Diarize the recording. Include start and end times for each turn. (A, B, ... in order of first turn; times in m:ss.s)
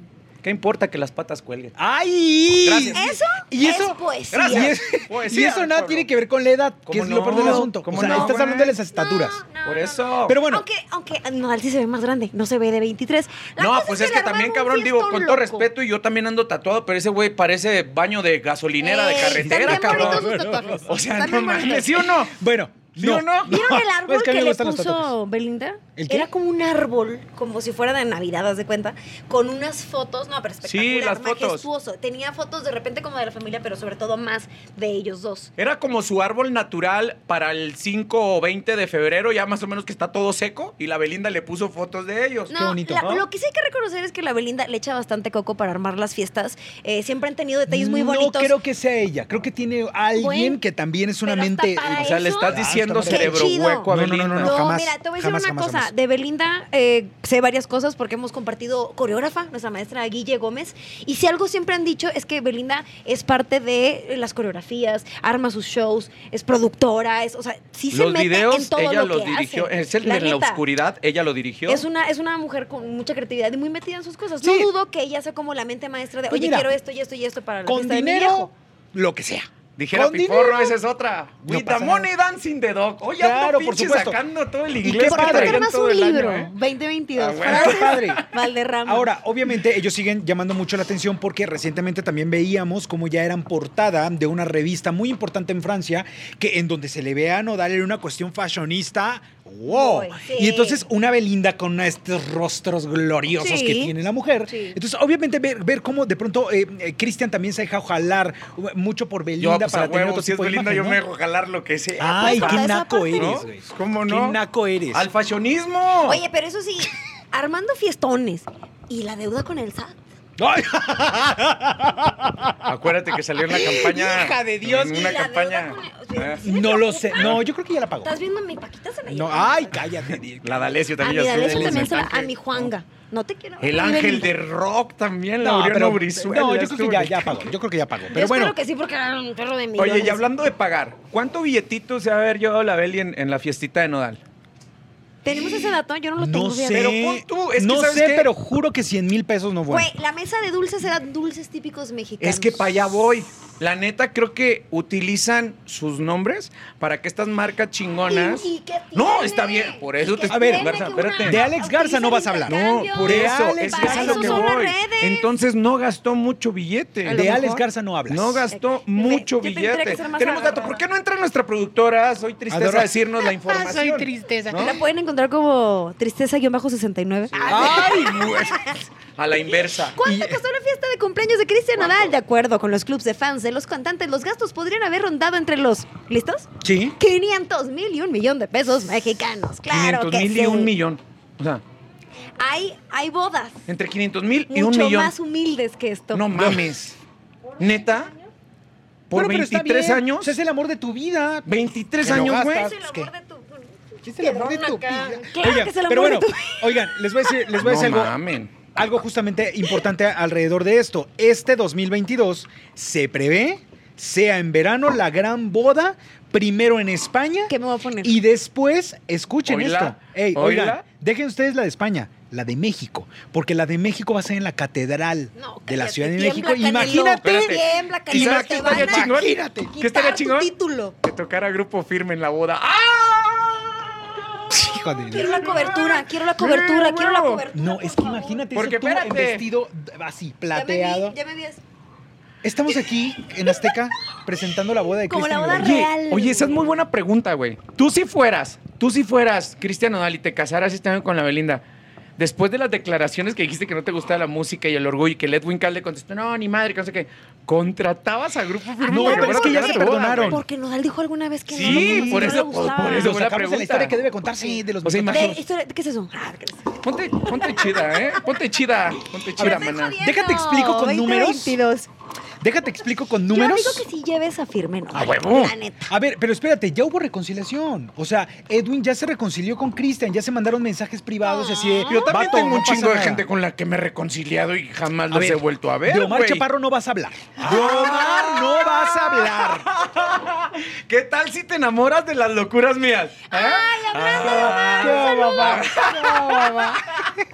0:00.4-0:01.8 A
0:01.8-0:09.4 B
0:02.6-0:03.2 A
0:02.9-0:04.8 C
0:04.3-0:06.1 A
0:06.9-0:08.8 A
0:07.6-0:08.3 C
0:08.9-0:15.7 C
0:09.6-0:10.4 A
0:10.2-0:10.6 B
0:13.6-0:20.3 A
0:18.8-0:22.0 C
0:19.3-0:21.0 B
0:20.8-0:22.4 A
0:21.6-0:25.1 B
0:23.0-0:23.6 A
0:23.4-0:35.5 C
0:26.0-0:26.3 B
0:30.6-0:31.6 A
0:35.6-0:43.2 A
0:42.5-0:48.6 C
0:42.5-0:43.2 B
0:47.7-0:55.9 B
0:50.2-0:50.6 C
0:51.2-1:10.6 C
0:51.9-0:54.6 A
1:07.9-1:11.8 A
1:11.7-1:18.5 C
1:14.4-1:14.7 B
1:16.3-1:16.7 B
1:17.6-1:20.8 B
1:19.8-1:26.5 A
1:21.4-1:22.1 B
1:23.0-1:24.2 B
1:24.8-1:25.6 B
1:25.0-1:29.1 C
1:27.2-1:28.4 A
1:27.4-1:28.2 B
1:28.8-1:51.0 B
1:39.7-1:40.8 C
1:43.4-1:43.9 C
1:44.5-1:44.8 C
1:49.4-1:54.4 A
1:52.0-1:55.1 B
1:52.0-1:53.5 C
1:54.9-1:56.2 A
1:56.0-2:00.0 C
2:00.4-2:02.7 B
2:02.6-2:06.4 A
2:03.4-2:05.1 B
2:04.8-2:07.4 C
2:06.4-2:08.1 B
2:07.2-2:07.4 A
2:08.0-2:09.8 C
2:09.1-2:12.0 B
2:10.4-2:12.7 A
2:11.0-2:14.3 C
2:13.6-2:17.5 A
2:15.4-2:18.6 B
2:18.1-2:20.2 C
2:19.8-2:24.2 A
2:25.2-2:27.0 C
2:26.2-2:29.9 B
2:26.7-2:28.3 A
2:29.7-2:33.0 C
2:32.2-2:41.4 A
2:38.1-2:45.3 C
2:40.3-2:44.5 B
2:42.5-2:54.8 A
2:47.1-2:48.4 B
2:48.5-2:50.8 C
2:52.5-2:53.0 B
2:54.5-2:58.8 C
2:57.3-2:58.6 A
2:57.5-2:58.6 B
2:59.1-3:00.0 A
2:59.6-3:10.7 C
3:00.0-3:00.4 B
3:06.6-3:07.0 B
3:09.7-3:11.6 A
3:12.4-3:13.6 C
3:13.7-3:15.1 A
3:14.5-3:16.3 C
3:16.1-3:17.0 A
3:16.3-3:16.6 B
3:17.6-3:18.1 A
3:19.1-3:20.4 A
3:19.1-3:23.1 B
3:21.4-3:22.7 A
3:22.1-3:27.4 C
3:24.0-3:28.1 B
3:27.6-3:28.5 A
3:28.7-3:49.7 B
3:37.5-3:38.2 C
3:39.5-3:40.8 A
3:45.3-3:50.9 C
3:46.8-3:50.5 A
3:51.0-3:57.4 A
3:54.5-3:55.4 B
3:55.1-3:58.4 C
3:57.5-4:01.1 B
3:58.5-3:59.4 A
4:00.5-4:01.6 C
4:02.4-4:05.9 B
4:03.4-4:03.7 C
4:05.1-4:06.7 C
4:05.6-4:11.6 A
4:12.2-4:20.4 A
4:18.8-4:23.2 C
4:18.9-4:20.4 B
4:21.5-4:24.0 A
4:21.6-4:25.4 B
4:24.8-4:25.4 A
4:25.1-4:26.7 C
4:26.8-4:30.0 A
4:27.2-4:28.2 C
4:29.4-4:31.6 B
4:29.4-4:31.9 C
4:32.4-4:33.8 B
4:33.3-4:35.9 C
4:34.9-4:35.5 A
4:35.9-4:43.2 B
4:41.2-4:42.1 C
4:41.8-4:46.4 A
4:45.1-4:49.7 B
4:47.4-4:57.1 A
4:47.4-4:48.2 C
4:53.3-4:56.8 C
4:54.2-4:55.7 B